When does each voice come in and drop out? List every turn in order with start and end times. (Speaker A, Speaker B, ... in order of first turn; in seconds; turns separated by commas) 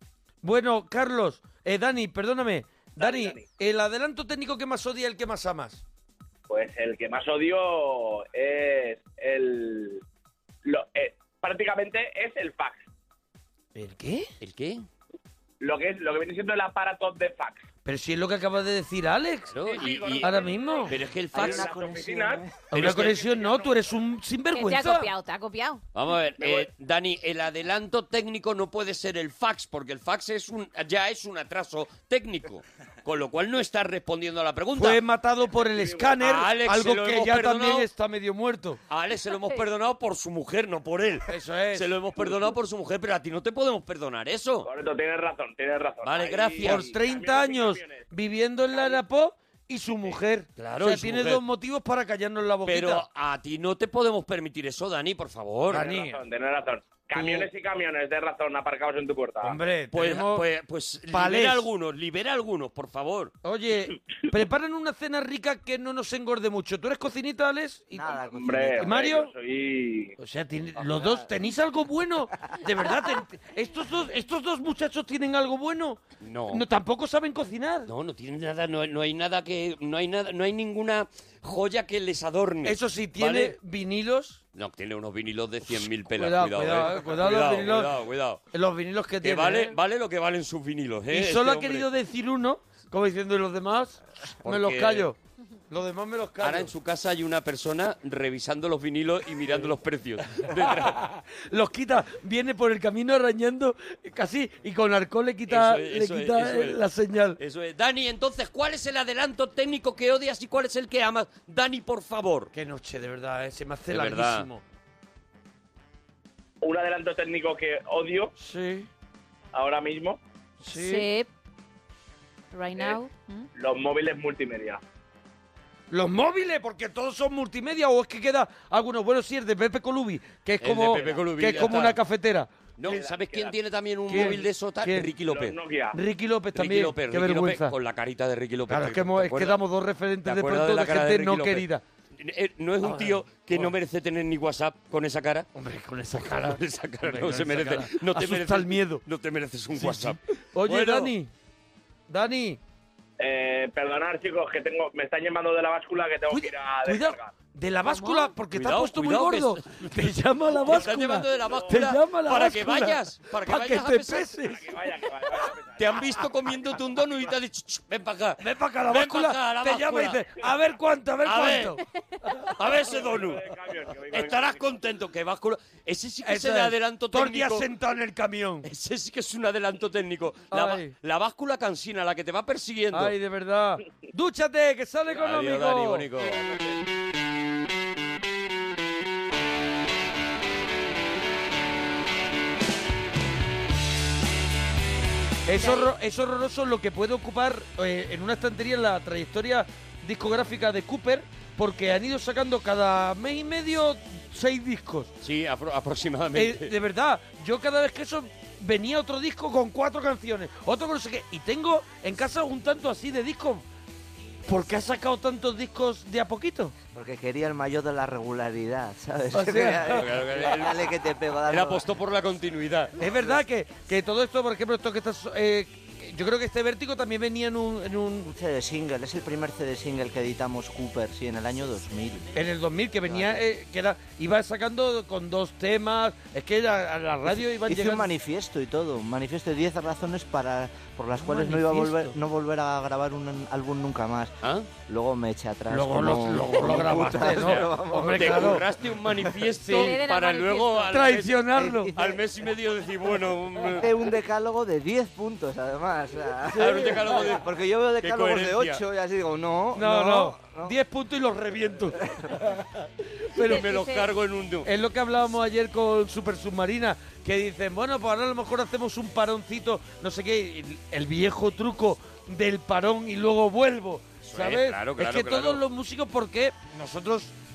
Speaker A: 0.4-5.8, Speaker B: 3.0-3.4, Speaker B: 6.5-10.0, Speaker B: 10.6-12.8, Speaker A: 13.8-14.3, Speaker C: 14.4-14.8, Speaker B: 15.6-17.6, Speaker A: 17.8-19.6, Speaker C: 19.5-20.4, Speaker B: 19.6-22.4, Speaker A: 20.2-20.9, Speaker C: 20.9-21.8, Speaker D: 21.3-22.7, Speaker A: 22.7-25.1, Speaker C: 22.7-23.3, Speaker B: 22.9-23.8, Speaker E: 24.5-25.8, Speaker C: 25.9-35.0, Speaker B: 26.4-26.7, Speaker A: 34.8-38.8, Speaker B: 35.6-36.1, Speaker C: 36.2-37.9, Speaker C: 38.9-44.7, Speaker A: 41.3-41.9, Speaker B: 44.6-48.0, Speaker C: 46.0-46.9, Speaker A: 46.6-53.0, Speaker B: 48.7-49.0, Speaker C: 50.6-51.4, Speaker C: 52.6-55.9, Speaker A: 55.7-56.2, Speaker B: 55.7-59.6, Speaker A: 57.2-57.4, Speaker A: 59.4-60.4, Speaker C: 59.9-63.3, Speaker A: 61.1-61.7, Speaker A: 63.4-68.2, Speaker D: 67.9-68.9, Speaker B: 68.3-70.1, Speaker A: 68.8-69.3, Speaker A: 70.2-76.0, Speaker C: 76.2-76.6, Speaker A: 76.5-77.9, Speaker C: 77.9-83.5, Speaker A: 82.6-84.4, Speaker C: 84.5-88.4, Speaker A: 85.7-87.9, Speaker A: 88.5-89.7, Speaker C: 89.2-91.9, Speaker A: 91.1-95.2, Speaker C: 94.4-95.1, Speaker A: 95.7-96.7, Speaker C: 96.4-101.0, Speaker A: 100.5-107.4, Speaker C: 105.5-106.8, Speaker C: 107.4-112.5, Speaker A: 112.5-114.6, Speaker C: 113.9-114.5, Speaker B: 116.6-118.3, Speaker A: 118.4-118.9, Speaker B: 119.5-120.2, Speaker A: 120.6-121.1, Speaker E: 120.7-121.3, Speaker E: 122.5-123.5, Speaker B: 123.5-124.8, Speaker A: 125.9-132.5, Speaker C: 130.6-132.0, Speaker C: 132.8-135.6, Speaker B: 132.8-133.5, Speaker A: 134.1-135.1, Speaker B: 135.2-136.0, Speaker A: 135.9-137.7, Speaker C: 136.5-139.6, Speaker A: 138.7-141.8, Speaker C: 140.2-141.7, Speaker C: 142.2-145.5, Speaker A: 142.8-143.7, Speaker A: 145.5-149.0, Speaker C: 146.3-151.1, Speaker A: 149.8-151.3, Speaker A: 152.1-152.6, Speaker B: 153.2-157.3, Speaker A: 156.3-164.8, Speaker C: 157.8-159.9, Speaker C: 160.6-164.4, Speaker B: 161.4-161.8, Speaker B: 164.5-166.0, Speaker C: 165.8-170.2, Speaker A: 168.4-171.8, Speaker C: 171.2-171.8, Speaker C: 172.5-173.5, Speaker B: 172.9-174.8, Speaker C: 174.1-177.7, Speaker A: 176.2-178.7, Speaker C: 178.6-183.1, Speaker A: 180.5-180.9, Speaker A: 182.9-186.1, Speaker C: 185.2-186.6, Speaker A: 195.5-205.1, Speaker E: 195.5-195.9, Speaker C: 205.2-206.7, Speaker A: 206.3-213.6, Speaker A: 214.5-216.7, Speaker D: 216.9-221.8, Speaker A: 219.3-220.2, Speaker C: 219.9-220.9, Speaker C: 221.4-222.9, Speaker A: 223.0-228.3, Speaker D: 228.3-232.3, Speaker A: 232.3-238.1, Speaker D: 233.1-233.4, Speaker D: 237.5-244.3, Speaker A: 241.2-242.1, Speaker C: 244.4-244.7, Speaker D: 244.9-248.6, Speaker A: 245.7-248.6, Speaker C: 247.2-253.9, Speaker A: 249.6-250.0, Speaker E: 249.7-250.9, Speaker A: 250.9-251.9, Speaker D: 251.6-252.2, Speaker D: 253.8-260.7, Speaker A: 256.5-257.2, Speaker C: 256.5-257.4, Speaker C: 258.0-258.8, Speaker A: 259.7-262.0, Speaker A: 263.3-263.7, Speaker E: 263.4-264.1, Speaker C: 263.4-264.7, Speaker A: 264.6-277.3, Speaker C: 274.2-275.6